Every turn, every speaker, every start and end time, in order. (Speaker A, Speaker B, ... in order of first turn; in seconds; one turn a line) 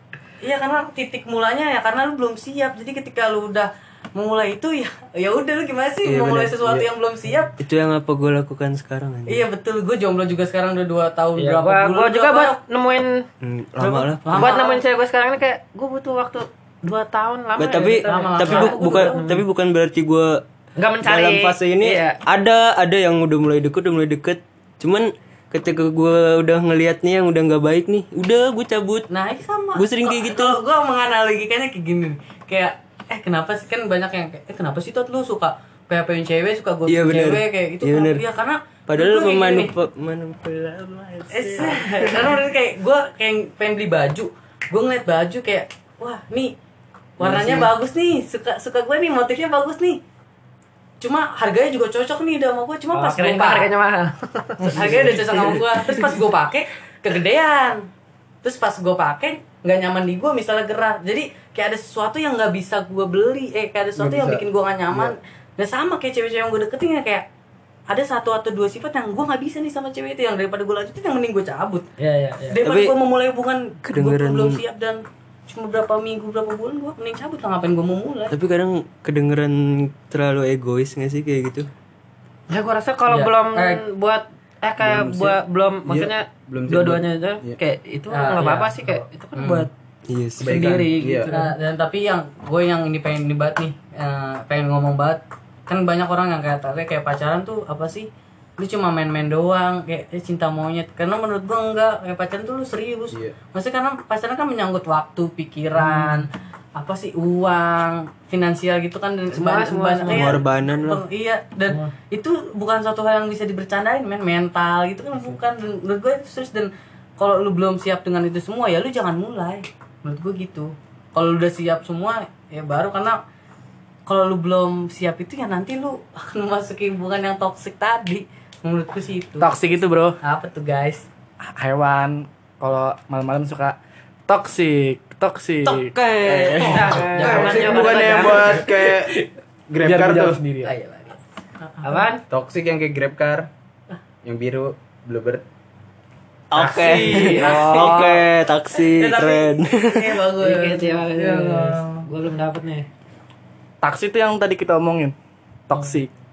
Speaker A: 0.4-7.5
Speaker B: 6.0-6.6
Speaker B: 7.6-9.4
Speaker A: 9.3-12.6
Speaker C: 11.4-13.2
Speaker B: 13.4-14.6
Speaker A: 13.8-14.8
Speaker C: 14.3-19.4
Speaker B: 17.6-20.4
Speaker A: 18.1-19.2
Speaker C: 20.8-22.2
Speaker B: 21.0-29.1
Speaker A: 29.1-39.7
Speaker B: 29.7-30.6
Speaker B: 36.9-38.2
Speaker B: 38.9-42.3
Speaker A: 41.3-46.5
Speaker A: 47.2-50.0
Speaker B: 47.2-47.7
Speaker A: 51.0-53.7
Speaker C: 52.9-55.3
Speaker D: 54.6-55.3
Speaker A: 54.7-57.9
Speaker A: 58.4-67.2
Speaker E: 64.0-65.2
Speaker A: 67.9-71.9
Speaker C: 72.0-72.6
Speaker A: 72.5-78.3
Speaker B: 72.6-72.9
Speaker B: 73.8-74.6
Speaker B: 78.3-81.7
Speaker C: 82.5-89.7
Speaker A: 83.1-83.8
Speaker E: 84.8-87.6
Speaker A: 88.1-89.7
Speaker B: 90.1-90.9
Speaker E: 90.4-91.3
Speaker C: 90.4-91.5
Speaker A: 91.3-123.2
Speaker C: 105.8-106.2
Speaker C: 109.3-110.4
Speaker B: 110.1-111.0
Speaker A: 124.1-129.5
Speaker D: 129.4-130.2
Speaker A: 130.2-131.1
Speaker D: 131.4-133.8
Speaker D: 134.3-137.6
Speaker E: 136.2-139.1
Speaker C: 136.6-138.8
Speaker A: 136.9-138.5
Speaker D: 138.3-138.6
Speaker E: 139.7-140.4
Speaker D: 139.8-140.7
Speaker C: 140.6-141.2
Speaker A: 141.6-142.1
Speaker C: 141.8-142.2
Speaker E: 142.3-143.5
Speaker E: 144.2-145.4
Speaker B: 146.5-150.1
Speaker C: 146.6-148.2
Speaker A: 146.6-148.2
Speaker A: 148.8-152.0
Speaker C: 150.4-152.9
Speaker D: 153.8-155.2
Speaker D: 155.7-156.1